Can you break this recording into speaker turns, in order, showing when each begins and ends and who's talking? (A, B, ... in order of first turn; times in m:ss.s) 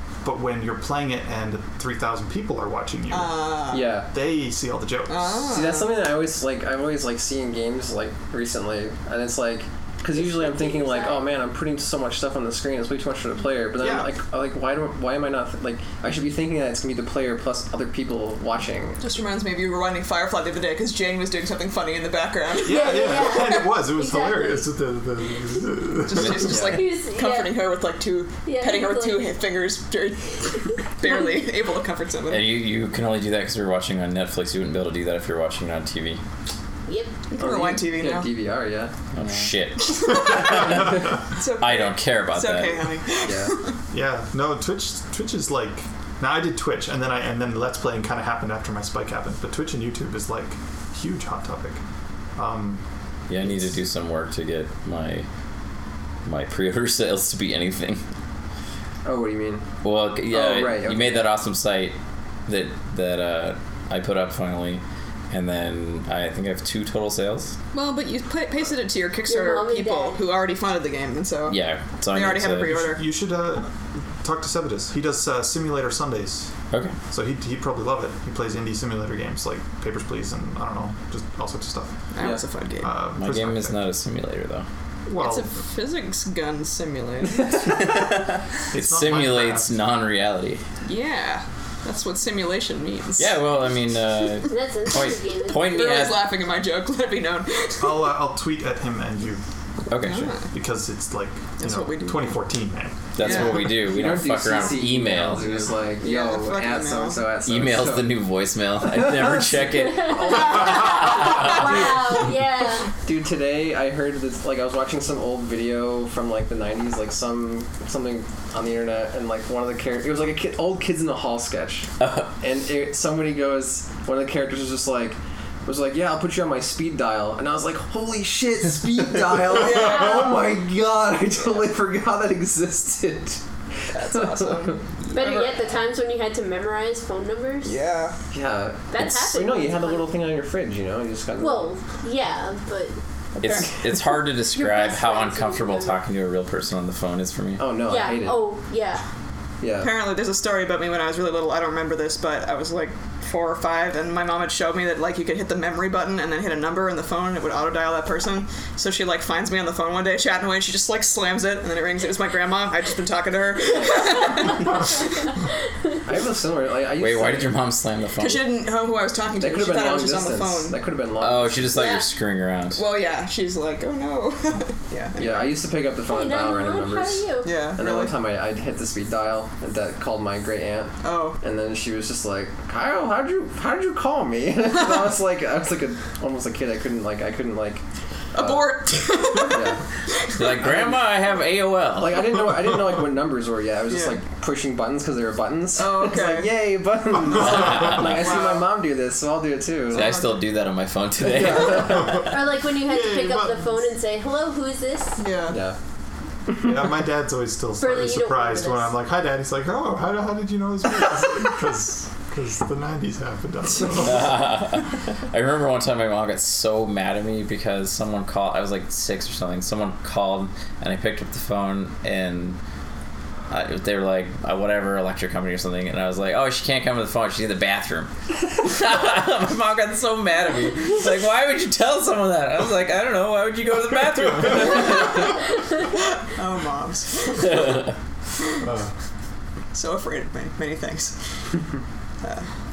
0:00.2-0:05.6 A
0:03.1-0:04.0 B
0:03.7-0:04.1 C
0:05.1-0:05.9 B
0:05.5-0:19.0 C
0:10.2-0:11.2 D
0:19.0-0:23.6 B
0:22.6-0:26.6 A
0:22.6-0:24.7 D
0:26.0-0:32.6 B
0:26.5-0:26.8 C
0:26.6-0:27.6 D
0:28.4-0:29.4 D
0:31.0-0:31.4 D
0:32.3-0:36.2 E
0:36.9-0:37.1 D
0:37.3-0:38.3 B
0:37.4-0:38.9 C
0:39.1-0:43.0 E
0:39.8-0:43.8 B
0:40.2-0:41.1 A
0:43.2-0:43.6 C
0:43.9-0:51.8 A
0:52.4-0:52.8 A
0:53.3-0:55.3 E
0:56.2-0:58.0 E
0:59.0-0:59.7 C
0:59.8-1:02.0 E
1:00.3-1:01.3 C
1:02.5-1:07.6 E
1:07.7-1:13.0 B
1:09.3-1:10.2 D
1:11.5-1:12.8 E
1:12.7-1:16.5 A
1:16.7-1:17.0 E
1:17.1-1:22.1 A
1:22.1-1:23.0 B
1:22.2-1:22.4 C
1:22.8-1:23.8 A
1:23.2-1:24.7 E
1:25.1-1:25.5 A
1:25.2-1:28.0 B
1:28.7-1:29.8 A
1:28.7-1:30.6 E
1:30.8-1:33.4 B
1:33.2-1:36.3 E
1:34.5-1:35.9 D
1:35.6-1:38.1 B
1:37.8-1:39.4 A
1:39.9-1:40.4 E
1:40.0-1:40.5 B
1:40.4-1:43.5 A
1:41.6-1:42.3 B
1:43.2-1:45.7 E
1:43.2-1:43.5 B
1:43.2-1:48.2 C
1:46.0-1:47.2 B
1:47.4-1:51.9 E
1:48.9-1:49.6 C
1:49.8-1:52.9 D
1:50.3-1:50.7 C
1:53.0-2:14.8 C
2:02.0-2:02.3 E
2:09.5-2:10.4 B
2:13.9-2:15.6 B
2:15.1-2:17.8 D
2:17.6-2:18.2 B
2:18.3-2:21.7 C
2:18.9-2:20.0 D
2:21.4-2:23.0 D
2:23.4-2:27.7 E
2:24.5-2:26.0 D
2:27.6-2:28.4 C
2:27.9-2:29.0 D
2:29.6-2:29.9 C
2:29.8-2:45.3 B
2:46.1-2:47.6 C
2:47.0-2:48.5 E
2:48.2-2:50.8 B
2:49.4-2:51.8 C
2:51.2-2:52.8 E
2:51.7-2:52.1 D
2:52.8-2:55.5 B
2:55.2-3:07.8 C
2:56.1-2:57.6 D
2:57.4-2:58.1 B
3:01.0-3:01.4 B
3:08.4-3:08.7 C
3:08.4-3:10.5 B
3:09.4-3:09.8 C
3:10.3-3:12.3 E
3:12.0-3:20.2 C
3:13.9-3:14.2 B
3:15.8-3:16.5 B
3:17.4-3:18.2 E
3:17.9-3:18.6 B
3:19.9-3:22.1 E
3:19.9-3:20.3 B
3:21.3-3:22.2 C
3:21.8-3:23.8 A
3:22.2-3:25.2 D
3:25.2-3:25.6 B
3:25.5-3:25.8 C
3:26.6-3:34.4 A
3:27.8-3:28.9 D
3:33.9-3:42.6 E
3:43.5-3:55.2 E
3:54.6-3:55.1 B
3:56.2-3:57.8 B
3:58.6-3:59.0 A
3:59.7-4:01.6 B
4:02.2-4:02.5 B